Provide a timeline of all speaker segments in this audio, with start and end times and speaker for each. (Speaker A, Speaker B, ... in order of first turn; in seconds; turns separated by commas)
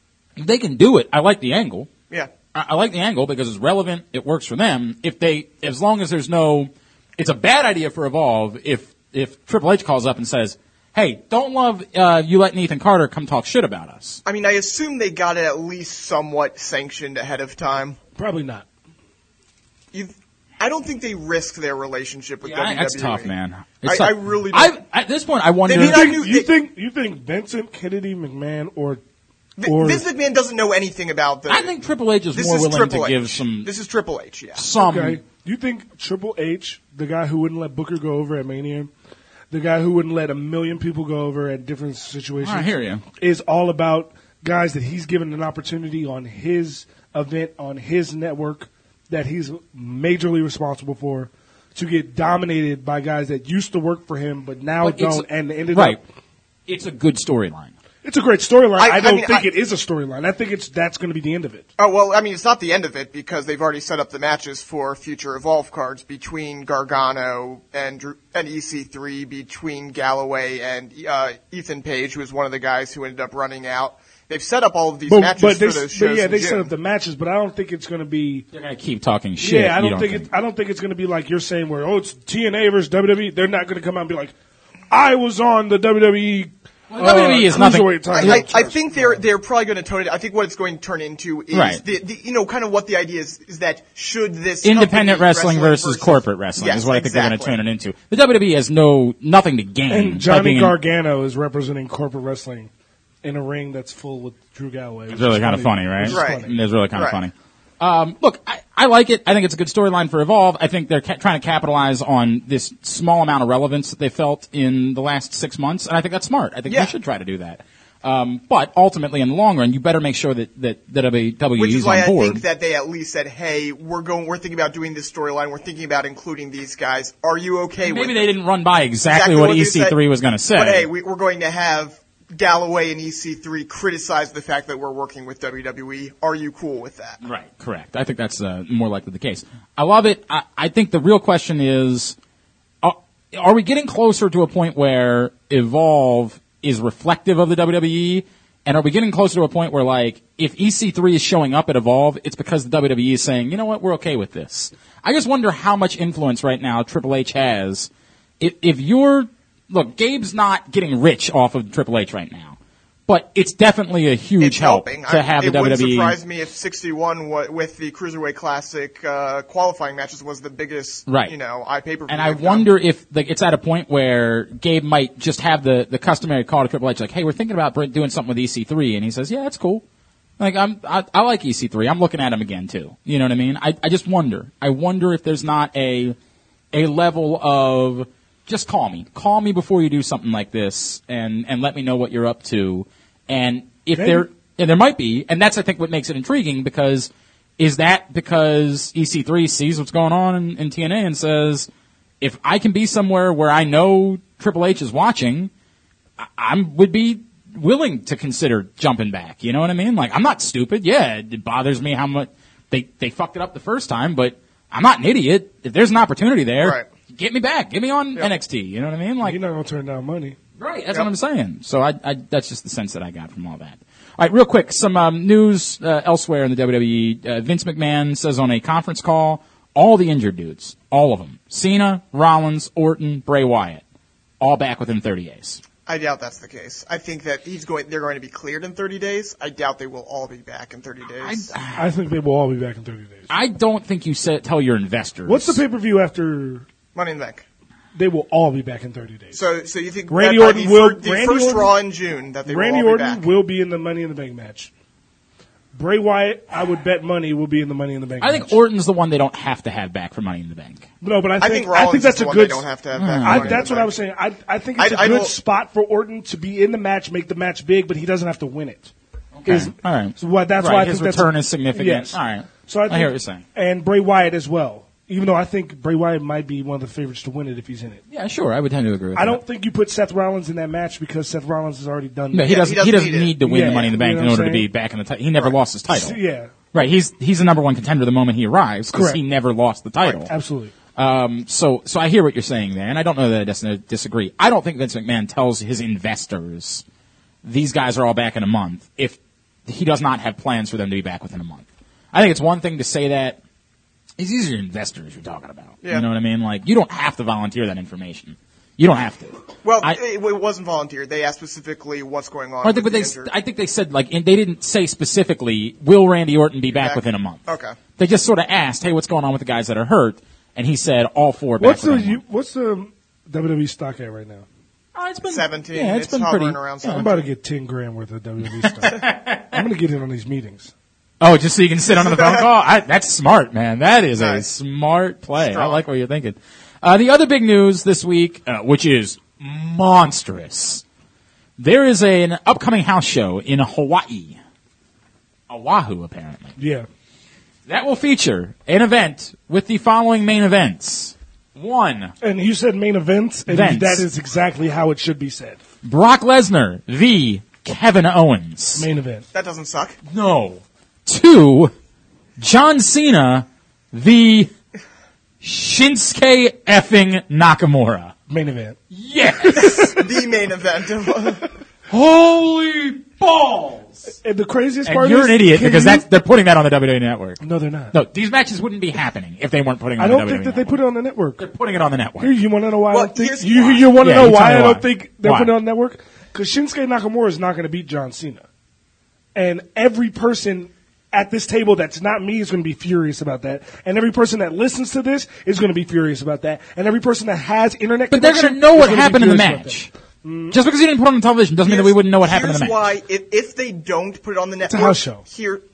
Speaker A: 0.4-1.9, Speaker A: 2.5-14.2, Speaker B: 14.2-18.0, Speaker C: 18.2-18.6, Speaker B: 19.9-23.3, Speaker A: 22.4-26.2, Speaker B: 23.8-24.8, Speaker B: 25.6-26.5, Speaker C: 25.8-29.0, Speaker B: 29.6-31.7, Speaker C: 29.6-30.0, Speaker A: 31.5-33.7, Speaker B: 32.3-34.6, Speaker A: 34.5-35.2, Speaker C: 34.8-38.9, Speaker C: 39.5-56.0, Speaker A: 42.4-43.0, Speaker A: 54.8-56.0, Speaker A: 56.7-57.7, Speaker C: 58.0-61.6, Speaker B: 58.8-59.5, Speaker B: 61.8-76.7, Speaker C: 75.1-78.5, Speaker A: 78.5-80.3, Speaker C: 79.4-84.3, Speaker C: 84.9-89.2, Speaker A: 86.9-88.5, Speaker B: 88.1-97.6, Speaker A: 91.5-91.8, Speaker A: 94.6-100.8, Speaker C: 99.9-102.7, Speaker C: 103.2-106.5, Speaker A: 105.1-122.4, Speaker B: 106.1-107.2, Speaker B: 116.7-116.9, Speaker B: 121.6-128.3, Speaker A: 127.8-130.9, Speaker B: 129.1-130.0, Speaker B: 130.5-137.2, Speaker A: 137.2-142.2, Speaker A: 142.8-166.2, Speaker B: 164.4-172.7, Speaker A: 171.1-171.3, Speaker A: 172.1-179.8, Speaker A: 180.4-186.2, Speaker A: 186.7-201.7, Speaker C: 193.9-194.3, Speaker A: 202.2-205.5, Speaker A: 206.2-219.4, Speaker B: 216.6-216.8, Speaker C: 219.2-220.4, Speaker A: 220.6-233.8, Speaker A: 234.4-235.6, Speaker B: 235.8-241.5, Speaker A: 241.2-241.9, Speaker C: 241.8-243.3, Speaker A: 243.3-245.6, Speaker C: 245.2-246.7, Speaker B: 246.9-247.4, Speaker C: 247.9-249.4, Speaker B: 249.3-253.3, Speaker C: 250.1-251.7, Speaker C: 252.5-254.7, Speaker C: 255.7-258.6, Speaker A: 258.2-260.9, Speaker C: 261.0-262.6, Speaker B: 261.4-263.9, Speaker A: 262.9-263.6, Speaker C: 263.2-268.9, Speaker B: 264.8-265.3, Speaker A: 269.4-273.4, Speaker C: 269.5-278.0, Speaker A: 278.1-279.4, Speaker C: 279.1-282.6, Speaker A: 282.3-286.2, Speaker B: 282.4-283.9, Speaker C: 283.4-284.7, Speaker C: 285.9-286.5, Speaker A: 286.7-290.3, Speaker C: 288.9-289.2, Speaker C: 290.3-290.7, Speaker A: 290.9-296.8, Speaker A: 297.4-303.4, Speaker A: 304.2-310.0, Speaker B: 309.6-313.3, Speaker A: 312.6-322.2, Speaker B: 316.7-317.8, Speaker C: 321.6-324.4, Speaker A: 324.9-327.0, Speaker B: 325.2-327.2, Speaker C: 326.9-330.7, Speaker A: 328.6-329.6, Speaker A: 331.2-340.8, Speaker B: 332.0-332.4, Speaker B: 334.2-334.4, Speaker B: 335.4-335.8, Speaker A: 341.6-344.4, Speaker A: 345.5-346.5, Speaker C: 346.6-346.9, Speaker A: 347.6-352.1, Speaker C: 352.2-355.6, Speaker A: 353.5-354.1, Speaker A: 355.8-358.9, Speaker C: 358.8-359.2, Speaker B: 359.3-360.0, Speaker A: 360.1-361.7, Speaker A: 362.4-364.5, Speaker A: 365.4-368.1, Speaker C: 368.3-368.8, Speaker A: 368.9-369.9, Speaker C: 369.4-370.0, Speaker B: 369.7-371.5, Speaker A: 371.9-374.1, Speaker C: 374.2-376.1, Speaker A: 374.9-377.4, Speaker C: 377.4-377.9, Speaker A: 377.9-380.8, Speaker C: 380.0-381.4, Speaker A: 381.4-382.4, Speaker C: 382.2-388.4, Speaker B: 382.9-383.9, Speaker A: 384.0-385.5, Speaker C: 389.3-400.6, Speaker A: 398.1-399.9, Speaker A: 400.5-402.8, Speaker B: 401.6-405.6, Speaker C: 404.6-405.2